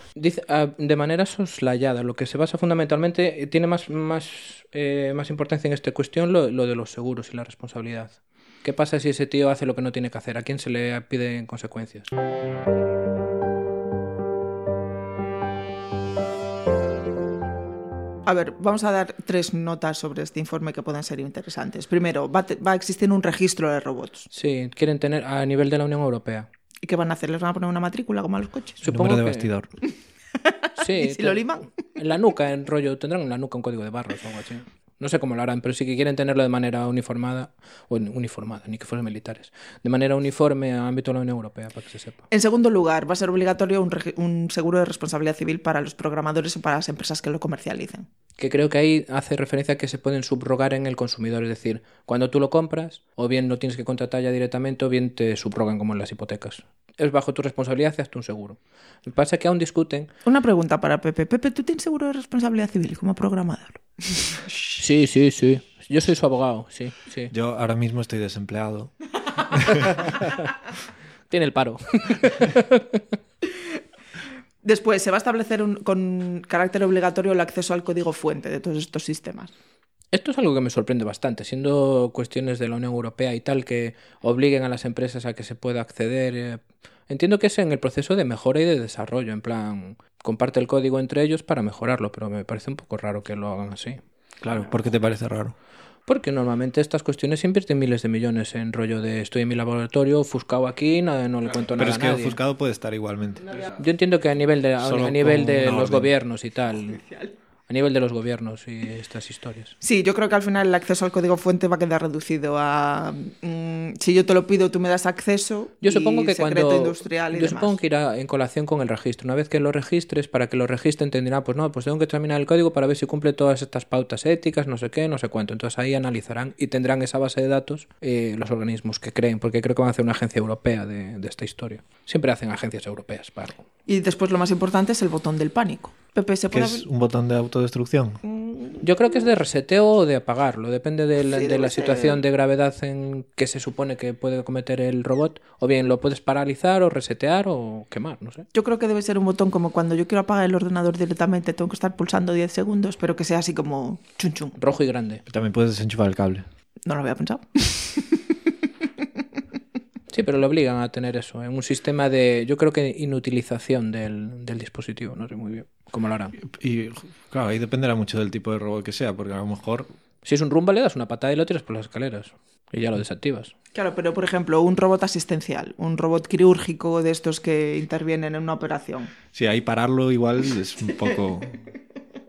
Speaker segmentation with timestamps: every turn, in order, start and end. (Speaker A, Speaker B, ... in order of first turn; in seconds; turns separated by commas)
Speaker A: 0.1-12.1, Speaker B: 18.2-24.3, Speaker A: 24.3-26.5, Speaker B: 26.8-28.8, Speaker A: 28.8-29.5, Speaker C: 28.9-29.7, Speaker B: 30.4-31.7, Speaker A: 30.8-42.2, Speaker B: 42.3-48.1, Speaker A: 48.4-60.1, Speaker B: 60.2-64.4, Speaker A: 64.8-67.3, Speaker C: 67.3-68.9, Speaker C: 69.4-70.1, Speaker A: 71.3-73.0, Speaker B: 74.6-79.5, Speaker A: 80.1-94.0, Speaker C: 94.4-95.5, Speaker A: 96.1-102.4, Speaker C: 101.8-103.4, Speaker A: 103.8-107.0, Speaker C: 104.8-106.1, Speaker B: 106.9-107.3, Speaker A: 107.7-109.8, Speaker B: 109.8-117.8, Speaker A: 115.8-133.6, Speaker B: 133.9-136.8, Speaker C: 136.5-138.2, Speaker B: 138.2-138.8, Speaker A: 138.8-148.5, Speaker B: 141.2-142.2, Speaker B: 148.5-154.6, Speaker A: 154.6-155.2, Speaker C: 155.3-156.5, Speaker B: 156.8-158.2, Speaker A: 160.1-166.3, Speaker C: 166.4-169.9, Speaker A: 170.2-173.5, Speaker B: 173.7-179.2, Speaker C: 179.3-181.6